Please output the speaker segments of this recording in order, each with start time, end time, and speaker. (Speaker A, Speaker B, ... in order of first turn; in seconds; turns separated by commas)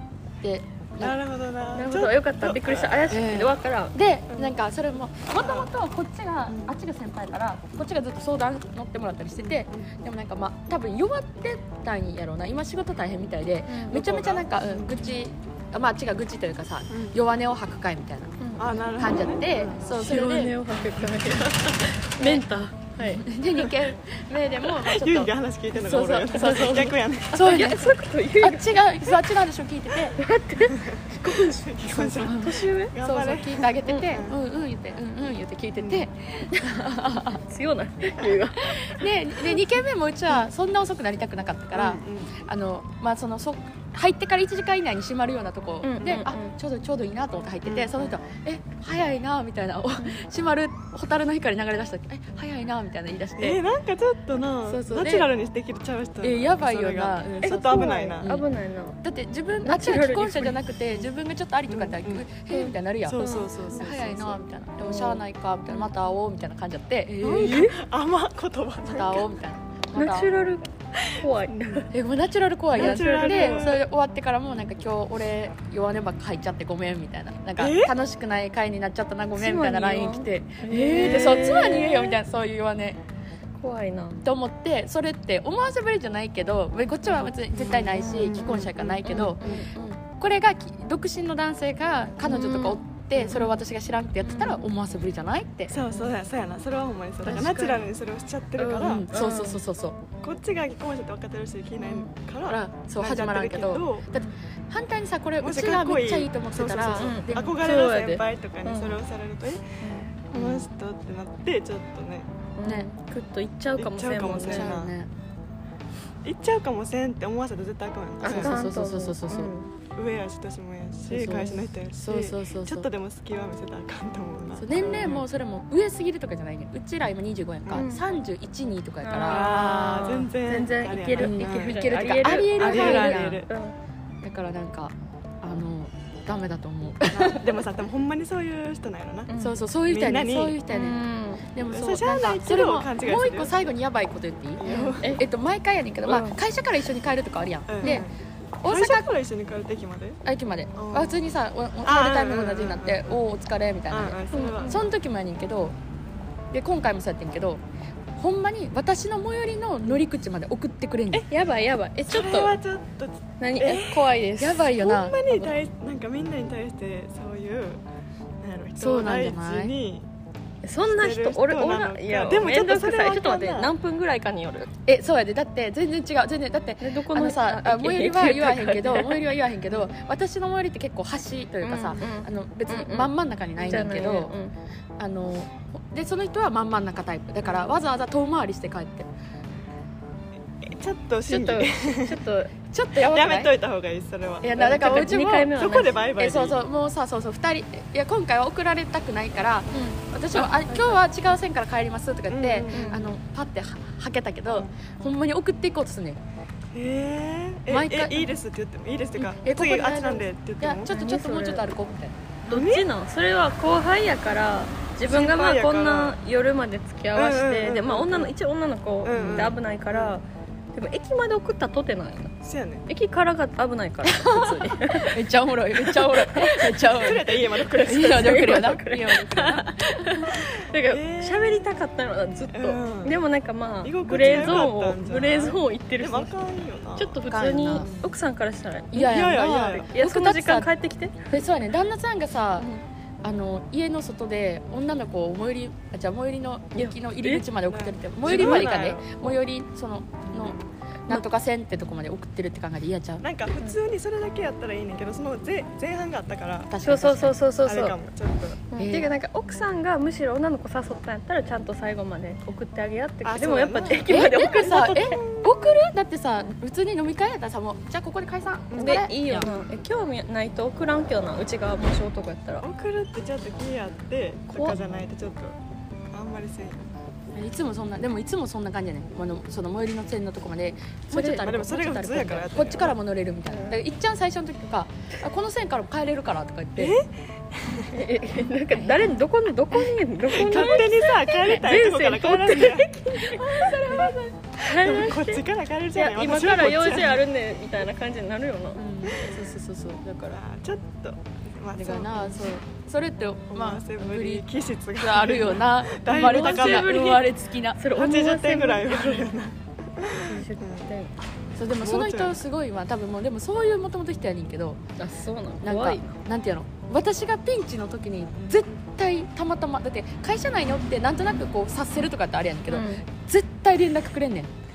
Speaker A: 0.4-1.2, Speaker B: 1.0-3.1, Speaker C: 1.7-4.0, Speaker A: 3.1-18.4, Speaker B: 5.3-5.7, Speaker B: 9.4-9.9, Speaker C: 13.7-13.9, Speaker B: 13.9-15.0, Speaker B: 16.9-17.2, Speaker C: 18.4-18.7, Speaker B: 18.6-19.8, Speaker A: 18.9-20.6, Speaker C: 19.9-23.3, Speaker A: 22.2-22.4, Speaker A: 23.0-30.2, Speaker B: 24.7-27.6, Speaker C: 26.3-29.1, Speaker C: 30.2-32.9, Speaker B: 30.7-34.4, Speaker A: 31.9-37.4, Speaker C: 33.8-34.1, Speaker B: 35.8-36.0, Speaker C: 37.4-39.5, Speaker A: 38.6-53.6, Speaker B: 41.7-42.4, Speaker C: 45.8-46.5, Speaker B: 47.6-48.1, Speaker B: 53.4-58.3, Speaker A: 54.6-55.3, Speaker A: 56.2-58.4, Speaker C: 57.4-59.0, Speaker A: 59.0-67.7, Speaker C: 59.6-60.6, Speaker B: 61.7-62.2, Speaker C: 62.5-63.5, Speaker B: 63.0-64.4, Speaker C: 64.8-65.9, Speaker C: 67.2-67.8, Speaker B: 67.2-69.3, Speaker A: 68.8-70.3, Speaker C: 69.9-71.9, Speaker B: 71.0-71.8, Speaker A: 71.9-83.0, Speaker B: 72.7-73.8, Speaker C: 72.7-73.6, Speaker B: 77.6-77.9, Speaker C: 79.4-82.2, Speaker C: 83.6-84.2, Speaker A: 84.2-95.8, Speaker B: 87.5-89.6, Speaker C: 88.0-90.0, Speaker C: 92.2-93.5, Speaker C: 94.2-94.6, Speaker B: 95.7-99.1, Speaker C: 97.2-97.8, Speaker C: 98.6-99.6, Speaker A: 98.8-100.0, Speaker B: 100.2-104.0, Speaker C: 101.8-102.1, Speaker A: 102.5-107.6, Speaker B: 105.4-112.3, Speaker C: 107.0-109.0, Speaker C: 109.8-110.6, Speaker C: 112.6-114.7, Speaker A: 112.6-112.9, Speaker B: 113.8-114.9, Speaker A: 114.3-115.1, Speaker B: 116.2-118.6, Speaker A: 118.2-119.5, Speaker C: 118.2-119.7, Speaker B: 120.0-125.2, Speaker A: 121.1-122.9, Speaker A: 124.6-129.7, Speaker C: 127.7-128.1, Speaker C: 129.0-133.8, Speaker B: 129.2-133.5, Speaker A: 131.2-133.4, Speaker A: 134.2-137.6, Speaker B: 137.1-139.3, Speaker C: 139.3-139.6, Speaker A: 139.4-141.0, Speaker B: 139.9-140.6, Speaker C: 140.7-141.5, Speaker A: 141.5-148.1, Speaker B: 141.6-143.7, Speaker B: 144.6-145.2, Speaker C: 144.6-145.2, Speaker B: 146.1-146.3, Speaker B: 147.7-148.1, Speaker A: 148.6-149.1, Speaker B: 148.6-150.2, Speaker A: 150.2-155.8, Speaker B: 150.7-151.2, Speaker B: 151.8-153.2, Speaker B: 153.9-154.9, Speaker C: 154.3-154.8, Speaker A: 156.5-157.6, Speaker A: 158.2-161.2, Speaker C: 161.1-162.6, Speaker B: 162.1-164.1, Speaker C: 163.4-164.7, Speaker A: 164.4-165.4, Speaker B: 164.8-167.8, Speaker B: 168.4-170.1, Speaker A: 168.8-169.7, Speaker C: 170.6-174.7, Speaker B: 170.8-173.7, Speaker A: 174.8-184.3, Speaker C: 176.8-179.2, Speaker C: 181.6-184.5, Speaker A: 185.0-189.1, Speaker B: 187.4-187.7, Speaker B: 190.6-192.2, Speaker C: 191.3-192.6, Speaker A: 192.7-193.5, Speaker B: 193.0-195.0, Speaker A: 194.4-195.6, Speaker C: 194.6-196.0, Speaker B: 195.5-196.6, Speaker A: 196.1-206.2, Speaker C: 199.7-200.9, Speaker B: 202.3-203.1, Speaker C: 202.7-203.1, Speaker B: 206.7-210.9, Speaker A: 207.7-208.3, Speaker A: 209.2-212.2, Speaker C: 210.9-211.7, Speaker B: 212.5-212.9, Speaker C: 212.5-222.3, Speaker B: 215.0-216.2, Speaker B: 217.1-218.3, Speaker B: 219.0-220.2, Speaker A: 219.1-219.5, Speaker B: 222.4-222.9, Speaker C: 222.9-225.2, Speaker A: 224.1-230.3, Speaker C: 225.8-236.4, Speaker B: 226.8-228.6, Speaker B: 230.6-231.7, Speaker B: 232.5-233.2, Speaker B: 233.8-238.1, Speaker C: 236.9-241.3, Speaker A: 237.3-237.9, Speaker A: 238.9-240.7, Speaker B: 239.0-239.9, Speaker A: 241.3-242.7, Speaker A: 243.2-253.2, Speaker C: 246.7-247.5, Speaker B: 247.7-249.1, Speaker C: 248.2-249.0, Speaker B: 250.3-250.6, Speaker B: 253.2-256.8, Speaker A: 256.7-257.4, Speaker C: 256.8-257.9, Speaker B: 257.6-258.7, Speaker C: 258.7-265.1, Speaker A: 258.8-259.1, Speaker B: 263.2-265.5, Speaker A: 264.1-269.5, Speaker B: 268.7-269.0, Speaker C: 268.8-272.6, Speaker B: 272.6-275.6, Speaker C: 274.5-274.8, Speaker B: 276.1-276.9, Speaker A: 277.3-287.0, Speaker C: 281.1-281.4, Speaker B: 281.2-282.9, Speaker C: 283.5-283.8, Speaker B: 286.8-287.9, Speaker C: 287.9-295.4, Speaker A: 288.7-289.1, Speaker B: 290.3-292.9, Speaker A: 290.5-291.6, Speaker A: 293.4-294.4, Speaker B: 294.6-297.2, Speaker C: 295.9-298.8, Speaker A: 298.8-300.4, Speaker B: 299.1-299.4, Speaker B: 300.3-302.4, Speaker A: 301.8-307.8, Speaker B: 303.5-307.1, Speaker C: 306.1-309.4, Speaker B: 307.9-310.9, Speaker C: 310.1-311.1, Speaker A: 311.6-314.8, Speaker B: 311.8-312.4, Speaker C: 315.0-316.2, Speaker A: 315.6-324.5, Speaker C: 322.7-323.0